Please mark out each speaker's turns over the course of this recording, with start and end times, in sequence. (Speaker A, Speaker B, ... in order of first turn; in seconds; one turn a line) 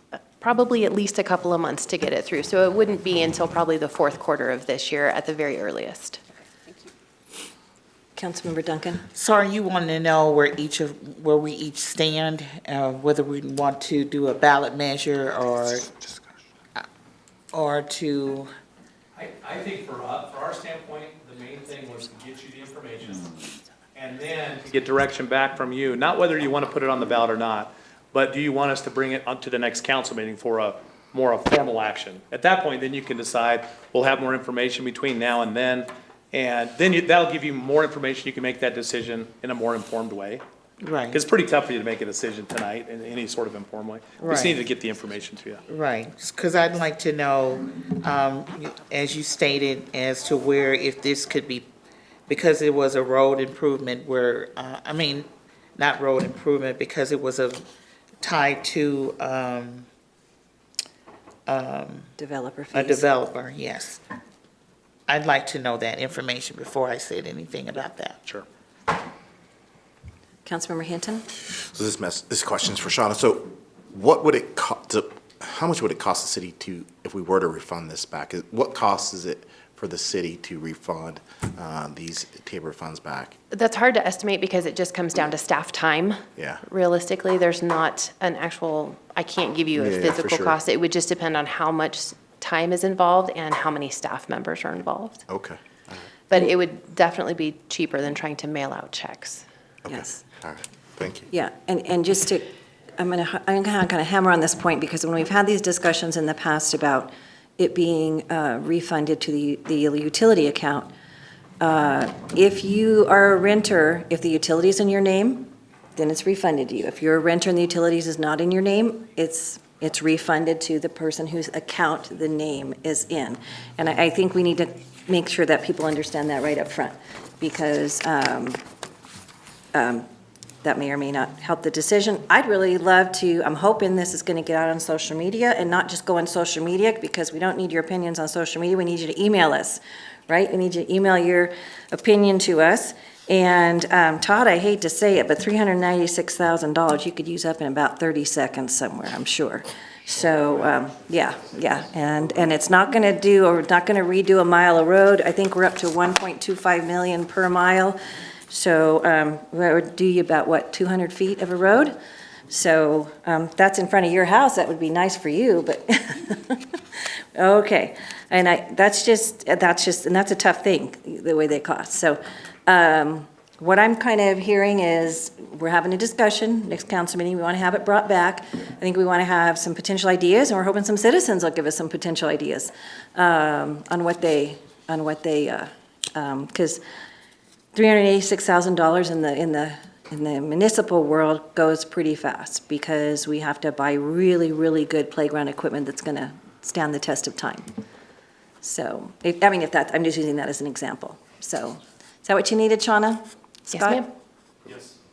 Speaker A: 0.4-6.2
Speaker B: 8.2-9.0
Speaker C: 9.1-15.9
Speaker C: 17.5-18.5
Speaker D: 19.2-23.3
Speaker D: 23.9-40.4
Speaker C: 40.8-41.2
Speaker D: 41.1-45.6
Speaker C: 44.2-44.6
Speaker C: 45.7-51.7
Speaker C: 52.3-57.7
Speaker C: 58.2-59.9
Speaker C: 61.5-62.1
Speaker B: 62.2-63.1
Speaker C: 62.7-64.0
Speaker C: 65.1-68.2
Speaker B: 70.4-71.2
Speaker E: 71.5-83.3
Speaker A: 83.5-95.2
Speaker E: 86.3-86.6
Speaker E: 89.8-90.5
Speaker E: 95.3-95.6
Speaker A: 96.3-99.4
Speaker E: 99.8-101.3
Speaker B: 99.9-100.2
Speaker B: 101.3-102.5
Speaker B: 103.0-110.9
Speaker B: 111.6-128.6
Speaker B: 129.7-130.1
Speaker B: 130.6-158.0
Speaker B: 158.5-161.9
Speaker B: 162.5-186.8
Speaker B: 187.7-197.7
Speaker B: 198.6-204.1
Speaker A: 203.7-204.1
Speaker D: 204.7-204.9